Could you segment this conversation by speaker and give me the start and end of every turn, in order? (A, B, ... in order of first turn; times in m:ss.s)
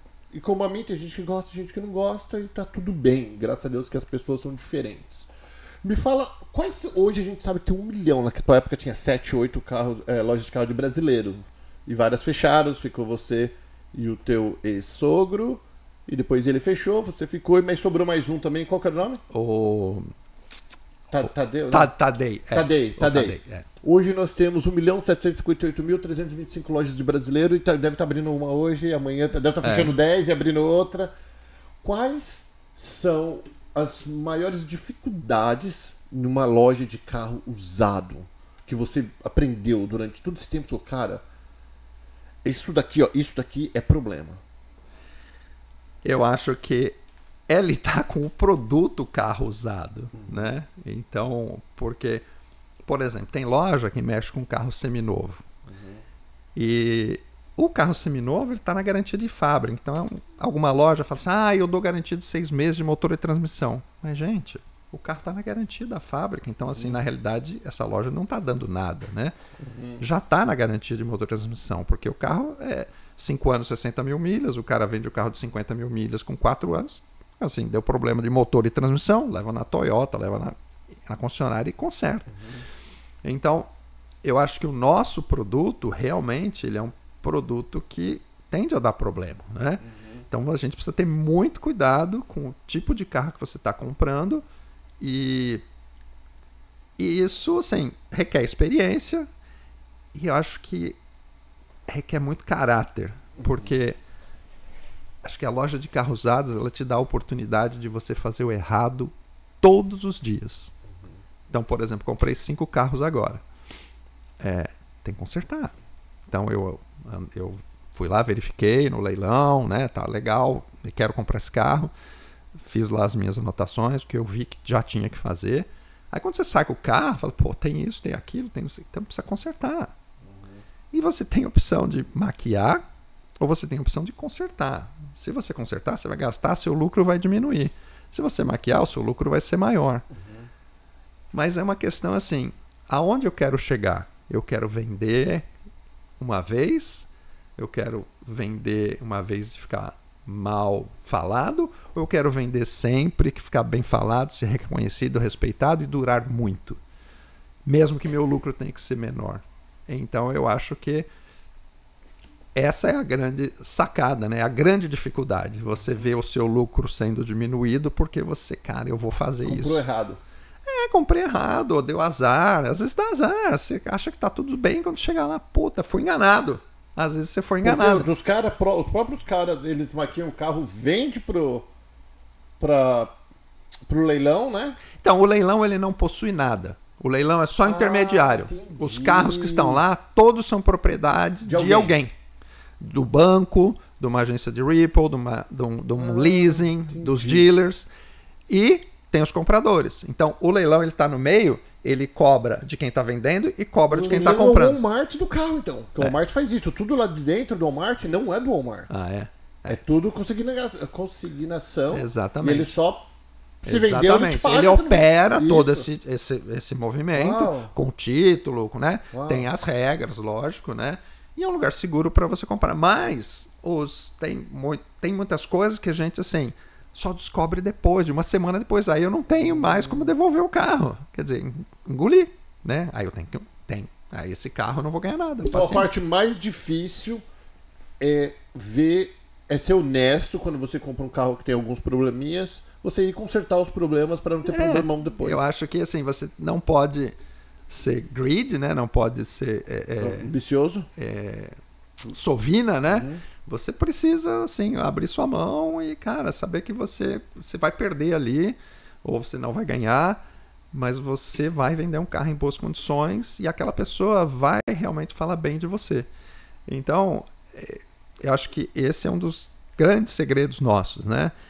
0:00.3-0:05.3 A
0:05.8-0:19.2 A
0:19.3-0:20.1 B
0:21.1-0:21.9 A
0:21.3-0:23.7 B
0:22.5-0:31.1 A
0:29.6-0:30.0 B
0:31.8-0:41.2 A
0:42.4-0:44.4 A
0:46.0-0:47.0 B
0:47.5-0:52.2 B
0:50.1-0:50.5 A
0:52.8-0:55.4 B
0:55.7-0:56.0 A
0:56.6-1:09.3 B
1:09.6-1:10.0 A
1:10.0-1:20.5 B
1:21.0-1:22.3 B
1:22.3-1:22.6 A
1:23.2-1:23.7 B
1:24.2-1:34.4 B
1:29.8-1:30.2 A
1:35.0-1:35.6 B
1:37.0-1:39.2 B
1:40.1-1:41.0 B
1:41.9-1:44.0 B
1:43.4-1:43.7 A
1:45.2-1:50.7 B
1:51.5-1:53.4 B
1:54.4-1:55.7 B
1:56.3-2:01.9 B
2:02.6-2:09.9 B
2:10.2-2:10.6 A
2:10.9-2:12.8 B
2:13.4-2:20.0 B
2:20.1-2:20.4 A
2:21.3-2:25.4 B
2:26.2-2:36.8 B
2:37.6-2:41.1 B
2:42.5-2:49.8 B
2:49.4-2:50.2 A
2:50.6-2:58.1 B
2:57.6-3:01.7 A
3:02.6-3:03.1 A
3:03.9-3:04.8 A
3:05.0-3:12.1 B
3:07.6-3:09.8 A
3:11.4-3:12.0 A
3:12.8-3:17.9 B
3:16.0-3:17.5 A
3:18.5-3:24.8 B
3:23.9-3:28.9 A
3:28.9-3:29.8 B
3:29.7-3:33.1 A
3:31.9-3:32.7 B
3:33.6-3:55.9 B
3:33.6-3:35.9 A
3:37.1-3:37.7 A
3:39.1-3:39.5 A
3:49.4-3:50.1 A
3:55.4-3:57.2 A
3:58.0-4:05.4 A
4:04.5-4:07.2 B
4:07.7-4:10.3 B
4:10.0-4:10.9 A
4:11.0-4:11.6 B
4:12.1-4:20.2 B
4:12.9-4:13.2 A
4:20.7-4:26.1 B
4:26.7-4:31.3 B